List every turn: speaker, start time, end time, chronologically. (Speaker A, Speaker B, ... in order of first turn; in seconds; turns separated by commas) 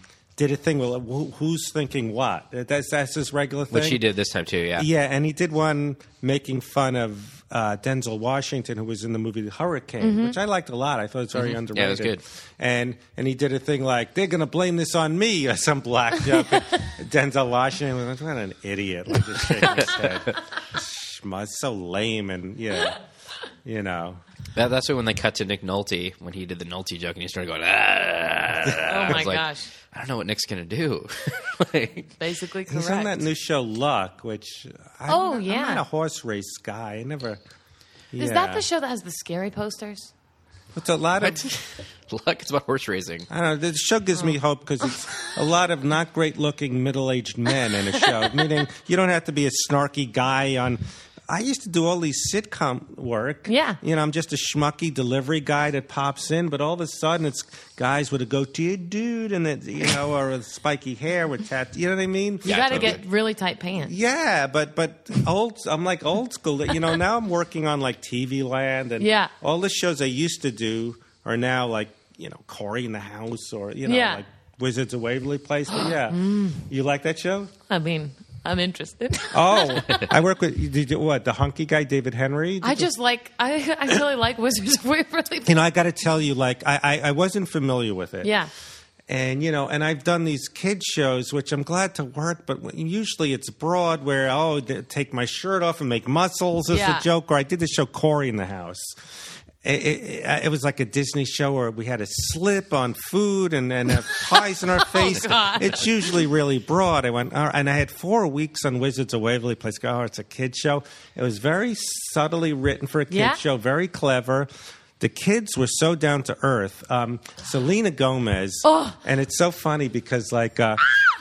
Speaker A: 0.4-4.0, Speaker B: 3.7-4.9, Speaker A: 4.8-23.0, Speaker C: 10.0-10.4, Speaker B: 11.3-12.2, Speaker A: 23.6-24.2, Speaker B: 24.6-32.1, Speaker A: 28.6-29.2, Speaker C: 28.9-29.7, Speaker C: 32.2-33.2, Speaker A: 32.7-37.4, Speaker C: 35.1-35.8, Speaker A: 38.1-38.6, Speaker C: 38.2-40.1, Speaker A: 40.8-41.5, Speaker B: 41.2-43.3, Speaker A: 43.3-63.0, Speaker C: 44.9-45.3, Speaker C: 53.5-53.8, Speaker B: 62.5-63.0, Speaker C: 62.5-63.9, Speaker A: 63.8-77.5, Speaker C: 69.0-69.3, Speaker C: 73.9-74.2, Speaker C: 75.7-76.6, Speaker C: 77.7-80.1, Speaker A: 79.3-82.9, Speaker C: 82.6-85.6, Speaker A: 85.5-88.3, Speaker C: 88.2-88.5, Speaker A: 89.1-99.0, Speaker C: 96.7-97.0, Speaker A: 99.6-120.9, Speaker C: 104.2-106.1, Speaker C: 113.1-113.4, Speaker C: 118.6-119.0